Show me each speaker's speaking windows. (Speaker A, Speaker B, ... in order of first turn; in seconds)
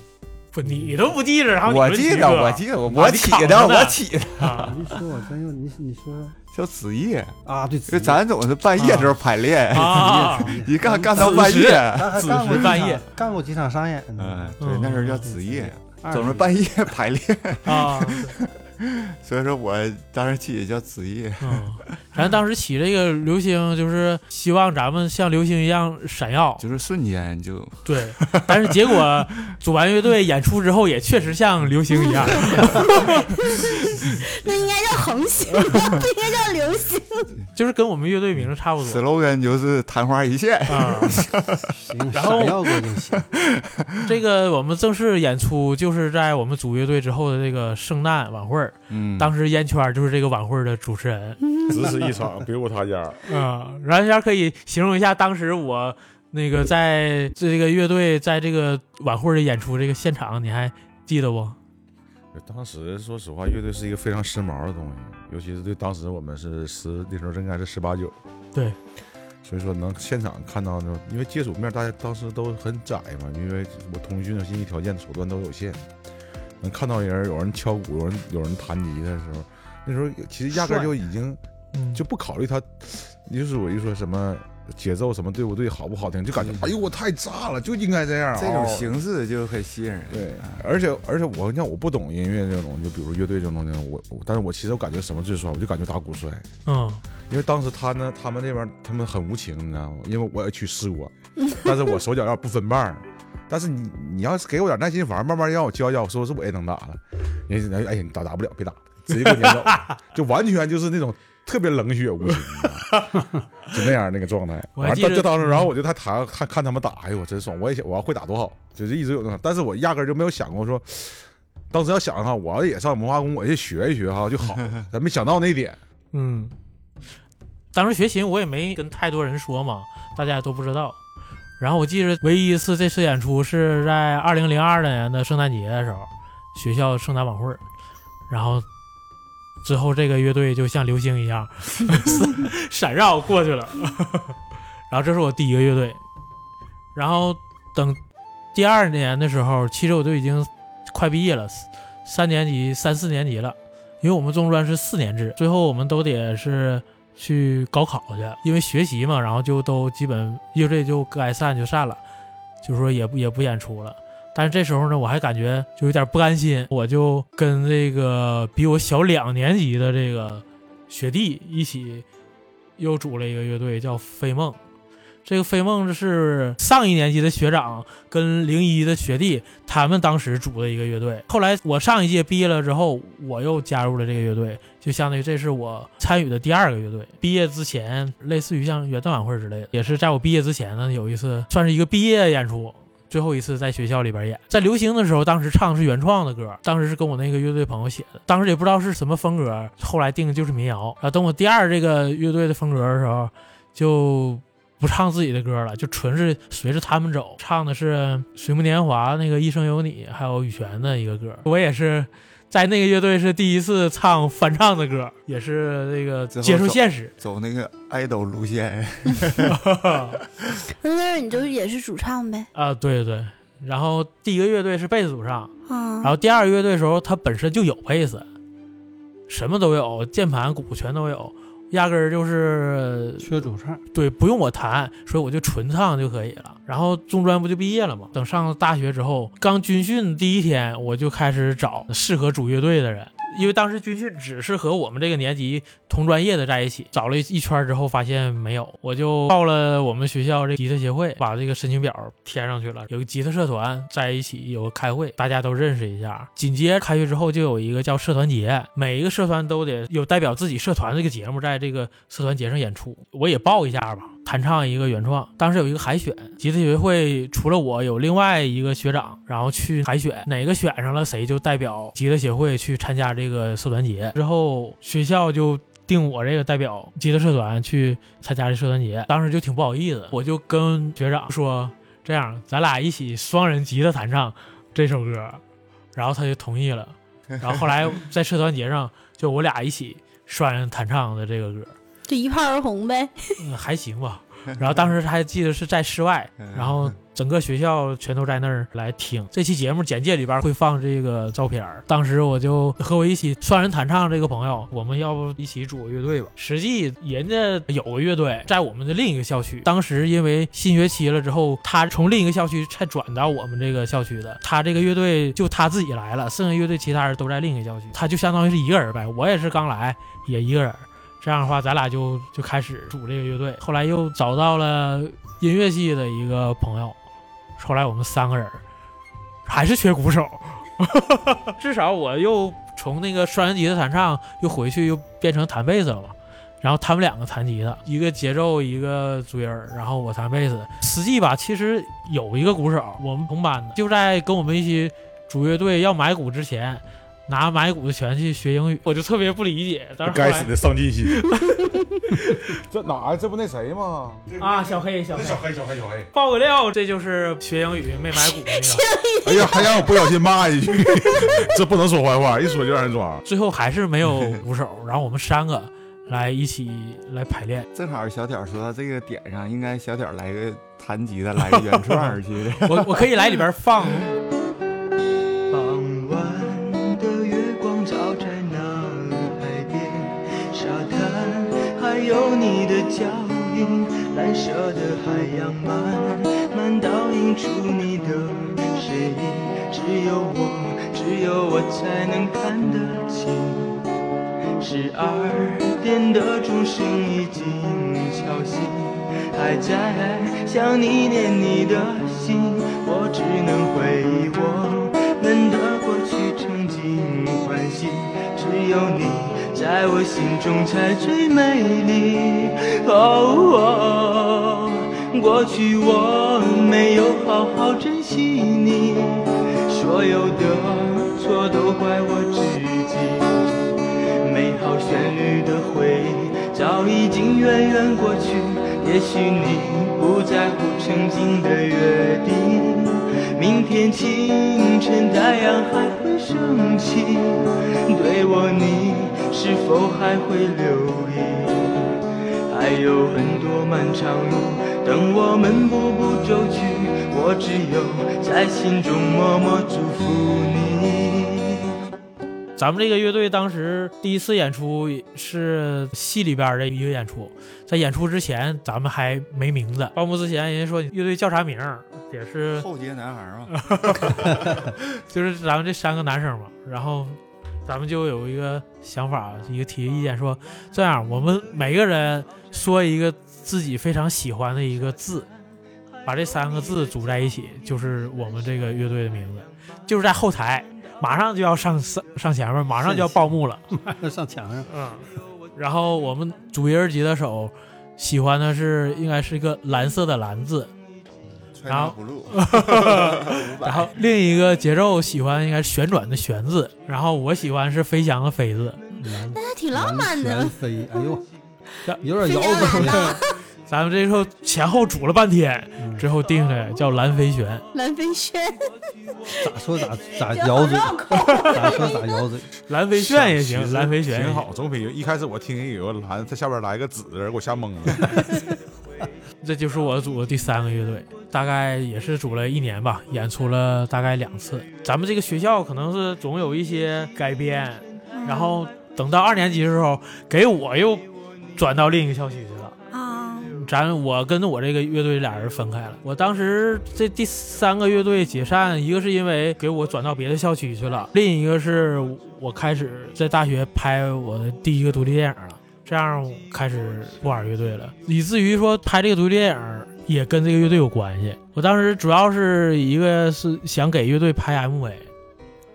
Speaker A: 0.5-4.7, 8.8-9.1, 9.7-10.6, 11.1-13.0, 14.6-15.3, 17.6-18.4, 21.4-26.6, 27.9-34.2, 35.5-35.9, 37.5-39.0, 40.7-41.2, 42.1-42.7, 44.0-51.4, 53.3-61.6, 81.7-82.0, 96.7-97.0, 109.1-109.9, 112.6-113.3, 114.8-115.7, 126.1-126.5, 127.7-131.0, 131.6-137.6, 138.3-138.6, 139.6-144.3, 144.9-146.0, 146.9-148.0, 148.5-162.0, 162.6-172.0, 172.8-174.6, 175.2-217.1, 219.4-220.2, 222.5-228.3, 229.3-233.3, 233.9-285.4, 285.9-291.7, 293.4-327.0, 327.6-328.6, 329.4-350.5, 351.3-352.6, 354.4-355.4, 356.1-358.9, 363.2-367.7, 371.5-374.1, 452.6-462.6, 463.5-475.3, 476.0-483.6, 484.7-490.7, 491.7-498.9, 502.7-507.6, 511.2-511.6, 512.7-514.5, 519.4-532.8, 533.5-555.1
Speaker B: 1.6-4.8, 6.5-7.3, 7.9-12.7, 14.2-22.0, 26.6-28.6, 38.8-41.7, 43.1-44.1, 48.9-49.3, 86.3-86.7, 88.3-90.6, 216.3-219.6, 294.5-294.8, 296.4-296.9, 367.7-373.2, 462.6-464.7, 491.6-493.9
Speaker C: 4.6-6.3, 7.5-8.2, 9.8-14.6, 15.2-16.5, 41.6-43.3, 233.2-233.8, 482.8-484.7, 499.0-501.2, 502.0-503.2, 505.8-506.1, 509.4-512.5
Speaker D: 31.9-37.3, 220.8-222.5, 225.7-226.1, 292.1-293.4, 358.3-359.9, 499.2-500.6, 502.2-503.4, 507.7-508.7, 510.3-512.2, 528.1-528.6, 532.9-533.6
Speaker E: 51.7-53.2, 62.3-68.2, 69.4-75.9, 76.6-81.4, 81.9-88.9, 90.1-96.5, 97.3-125.8, 350.0-351.2, 352.4-354.4, 355.1-356.1, 359.2-363.2, 512.9-518.4
Speaker F: 375.5-393.8, 394.6-451.8